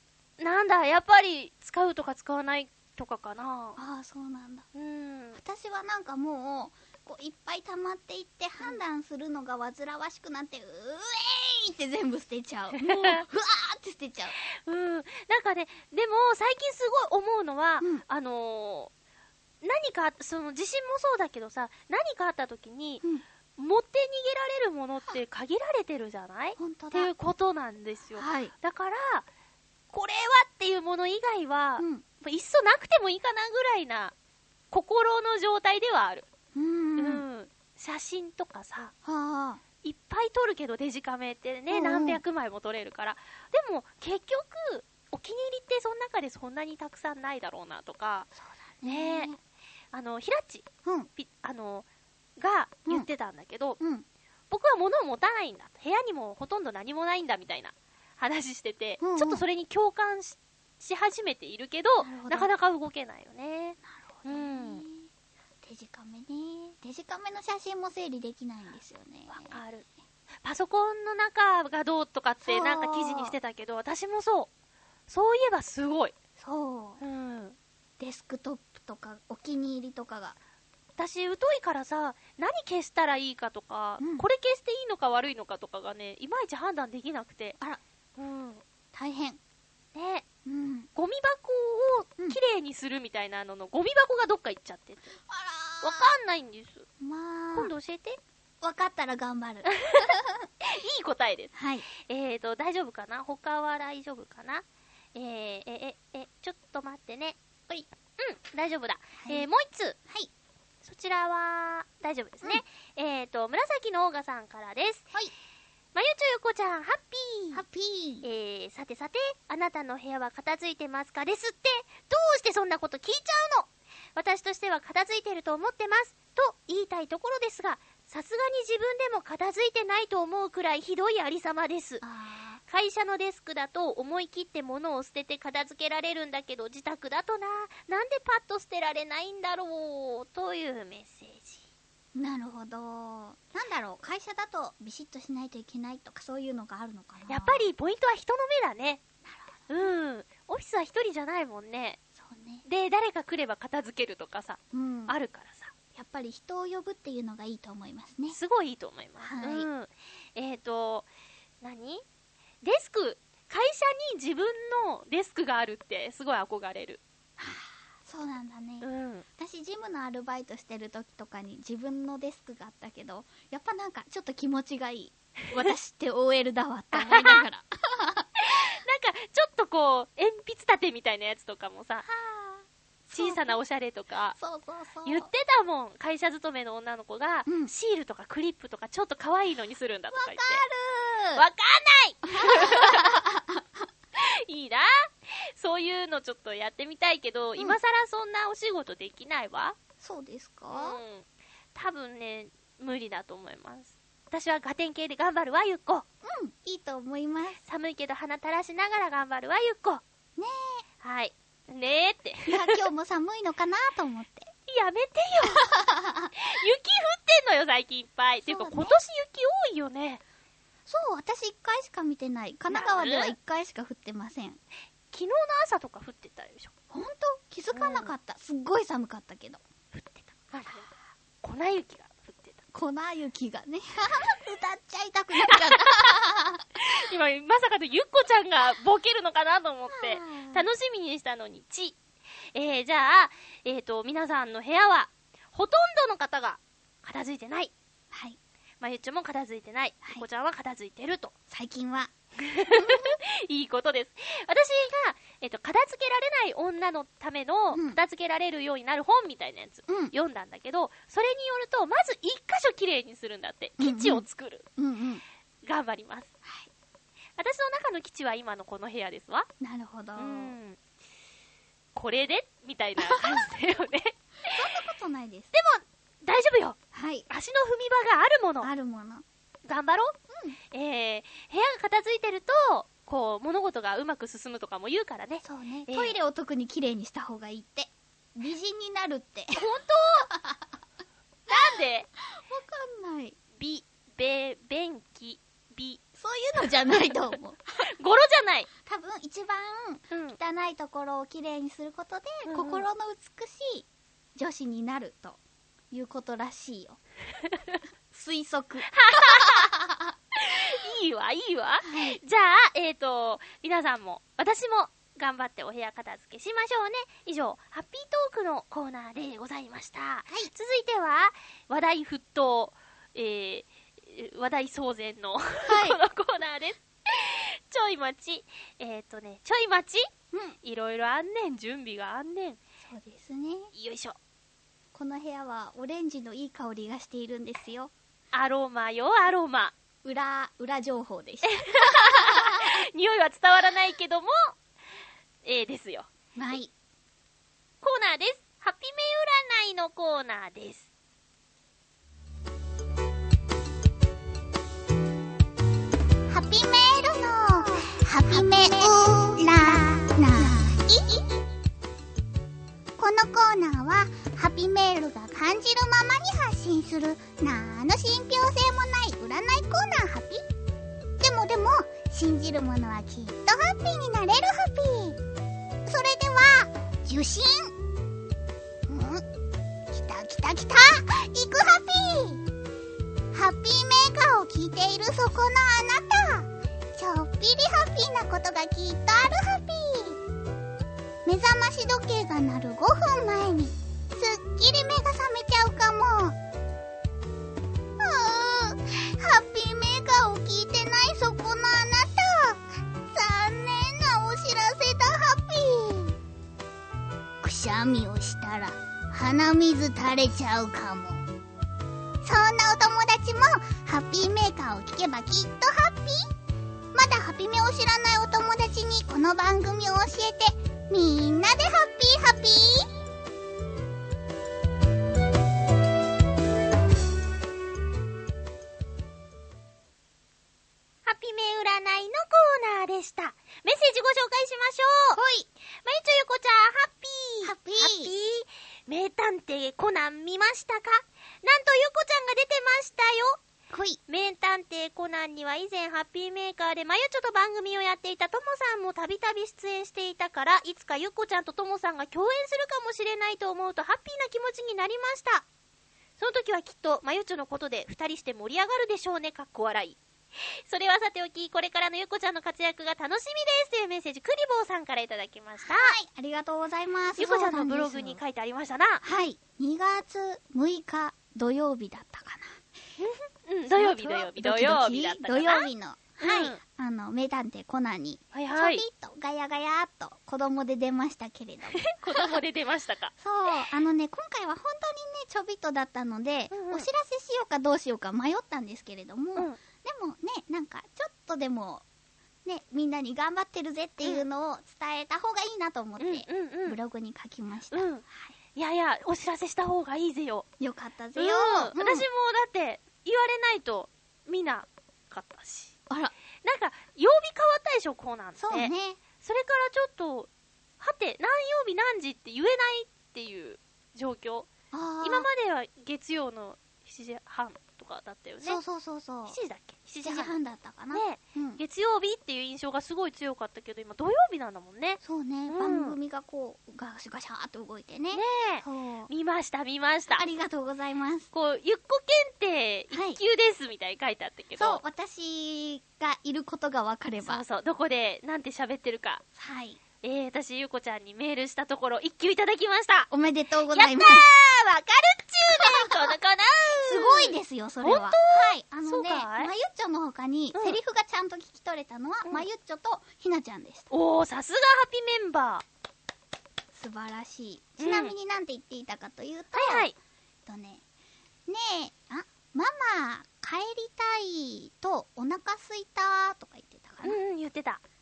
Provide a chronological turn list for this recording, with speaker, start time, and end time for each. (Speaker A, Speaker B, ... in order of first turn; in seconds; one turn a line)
Speaker A: 0.4-3.8
Speaker B: 3.8-4.7
Speaker A: 4.7-5.4
Speaker B: 5.3-14.3
Speaker A: 12.8-13.2
Speaker A: 14.5-18.9
Speaker A: 19.6-23.0
Speaker A: 23.6-29.2
Speaker B: 26.6-27.1
Speaker B: 28.2-28.5
Speaker A: 29.9-34.1
Speaker B: 31.8-32.0
Speaker A: 34.7-36.3
Speaker B: 36.5-37.2
Speaker A: 37.0-38.9
Speaker B: 39.0-39.6
Speaker A: 39.8-48.3
Speaker B: 41.7-42.2
Speaker B: 48.4-49.4
Speaker A: 48.8-49.3
Speaker A: 49.9-51.9
Speaker A: 52.4-53.8
Speaker B: 53.8-54.0
Speaker A: 54.5-64.8
Speaker B: 59.0-59.4
Speaker B: 62.0-62.5
Speaker B: 63.9-65.1
Speaker B: 65.6-69.6
Speaker A: 69.3-69.9
Speaker A: 70.4-74.5
Speaker B: 72.4-73.3
Speaker A: 75.1-76.1
Speaker B: 76.4-77.0
Speaker A: 77.0-77.6
Speaker B: 78.0-80.4
Speaker A: 81.0-87.6
Speaker B: 84.0-84.2
Speaker A: 88.2-88.6
Speaker B: 88.9-89.4
Speaker A: 89.9-90.2
Speaker B: 90.4-90.9
Speaker A: 90.9-95.2
Speaker B: 95.3-96.1
Speaker A: 95.8-96.9
Speaker B: 97.0-97.7
Speaker A: 97.5-98.2
Speaker B: 98.6-100.5
Speaker A: 99.7-104.6
Speaker B: 101.5-101.8
Speaker A: 105.1-110.0
Speaker B: 109.2-109.5
Speaker A: 110.8-115.0
Speaker A: 115.9-117.6
Speaker B: 117.5-118.2
Speaker A: 118.2-132.0
Speaker B: 132.0-132.6
Speaker A: 132.7-141.6
Speaker B: 142.1-147.7
Speaker A: 147.3-149.0
Speaker B: 149.2-149.5
Speaker A: 149.7-152.0
Speaker B: 152.2-152.6
Speaker A: 152.6-155.7
Speaker B: 154.7-155.1
Speaker B: 155.9-158.4
Speaker A: 158.3-161.1
Speaker B: 159.2-159.7
Speaker A: 161.6-162.0
Speaker A: 162.6-167.0
Speaker B: 167.4-168.8
Speaker A: 168.8-169.2
Speaker B: 169.4-178.3
Speaker A: 176.9-177.4
Speaker A: 178.4-182.1
Speaker B: 182.0-183.5
Speaker A: 183.1-184.4
Speaker B: 184.4-185.3
Speaker A: 185.0-190.6
Speaker B: 187.4-187.7
Speaker B: 190.1-191.4
Speaker A: 191.3-193.1
Speaker B: 192.3-193.6
Speaker A: 194.2-199.8
Speaker B: 200.0-201.0
Speaker A: 200.7-206.0
Speaker B: 206.2-207.6
Speaker A: 207.6-210.0
Speaker B: 210.4-210.8
Speaker A: 211.0-212.8
Speaker B: 212.5-214.5
Speaker A: 214.7-215.6
Speaker B: 215.6-216.3
Speaker A: 216.3-220.2
Speaker B: 218.4-218.9
Speaker B: 220.9-224.6
Speaker A: 222.7-223.3
Speaker A: 225.1-226.7
Speaker B: 226.9-229.6
Speaker A: 227.7-228.1
Speaker A: 229.9-232.6
Speaker B: 232.7-236.8
Speaker A: 235.4-236.1
Speaker A: 236.8-242.0
Speaker B: 239.9-240.7
Speaker A: 242.5-247.7
Speaker B: 248.1-248.4
Speaker A: 248.8-251.3
Speaker B: 251.5-253.1
Speaker A: 252.4-264.6
Speaker B: 257.7-258.0
Speaker B: 259.9-260.1
Speaker B: 263.8-265.2
Speaker A: 265.6-266.3
Speaker A: 267.4-269.5
Speaker B: 269.6-270.6
Speaker A: 270.1-270.8
Speaker A: 271.9-274.6
Speaker B: 273.0-273.3
Speaker B: 274.5-275.5
Speaker A: 275.5-276.8
Speaker B: 276.9-277.3
Speaker A: 277.3-278.7
Speaker B: 278.6-279.2
Speaker A: 279.6-280.1
Speaker A: 280.7-286.2
Speaker B: 285.4-289.6
Speaker A: 289.5-290.3
Speaker B: 290.3-290.6
Speaker A: 291.5-292.1
Speaker B: 292.3-293.4
Speaker A: 293.6-296.0
Speaker B: 296.2-297.9
Speaker A: 296.6-297.1
Speaker A: 297.8-298.7
Speaker B: 298.9-305.4
Speaker A: 300.1-300.4
Speaker A: 302.4-302.9
Speaker B: 305.9-307.0
Speaker A: 307.5-307.8
Speaker B: 308.1-310.1
Speaker A: 308.9-309.7
Speaker A: 310.3-330.1
Speaker B: 311.8-312.2
Speaker B: 325.6-326.0
Speaker B: 330.3-330.6
Speaker A: 330.6-332.6
Speaker B: 332.8-333.7
Speaker A: 333.7-334.2
Speaker B: 334.9-337.9
Speaker A: 338.3-339.7
Speaker B: 340.0-342.8
Speaker A: 341.4-344.6
Speaker A: 345.4-346.1
Speaker B: 346.4-346.7
Speaker A: 347.8-350.9
Speaker B: 356.3-361.2
Speaker A: 358.3-358.9
Speaker B: 363.0-370.4
Speaker B: 371.2-375.2
Speaker B: 375.8-377.7
Speaker B: 378.9-379.2
Speaker B: 379.9-382.4
Speaker B: 383.3-390.2
Speaker B: 391.2-396.4
Speaker B: 398.0-406.2
Speaker B: 407.4-411.2
Speaker B: 412.2-416.3
Speaker B: 416.9-422.9
Speaker A: 431.1-435.2
Speaker B: 435.1-435.5
Speaker A: 435.8-443.4
Speaker B: 437.4-438.1
Speaker B: 443.7-444.0
Speaker A: 444.1-455.4
Speaker A: 456.2-465.9
Speaker B: 465.6-468.2
Speaker A: 467.2-469.0
Speaker B: 469.0-472.6
Speaker A: 473.0-476.6
Speaker B: 473.7-482.4
Speaker A: 478.3-478.8
Speaker A: 481.8-483.5
Speaker B: 483.2-491.8
Speaker A: 486.5-486.9
Speaker B: 492.4-498.3
Speaker A: 496.0-496.8
Speaker A: 497.7-500.4
Speaker B: 500.6-502.1
Speaker A: 501.1-505.7
Speaker A: 506.4-514.5
Speaker B: 508.4-509.0
Speaker B: 514.7-515.3
Speaker A: 515.0-518.6
Speaker B: 518.4-519.4
Speaker A: 519.2-520.4
Speaker B: 520.0-521.6
Speaker A: 520.9-526.0
Speaker B: 525.0-529.1
Speaker A: 528.1-530.2
Speaker B: 530.1-531.3
Speaker A: 531.3-534.8
Speaker B: 532.9-533.2
Speaker B: 534.6-537.4
Speaker A: 537.2-539.2
Speaker B: 539.4-539.8
Speaker A: 540.0-543.1
Speaker B: 543.1-544.2
Speaker A: 543.7-549.5
Speaker B: 545.5-546.1
Speaker B: 546.8-553.9
Speaker A: 550.5-550.8
Speaker A: 553.9-555.6
Speaker B: 556.7-559.9
Speaker A: 557.8-558.1
Speaker A: 559.5-560.0
Speaker B: 560.5-560.8
Speaker B: 561.5-567.2
Speaker A: 567.0-567.8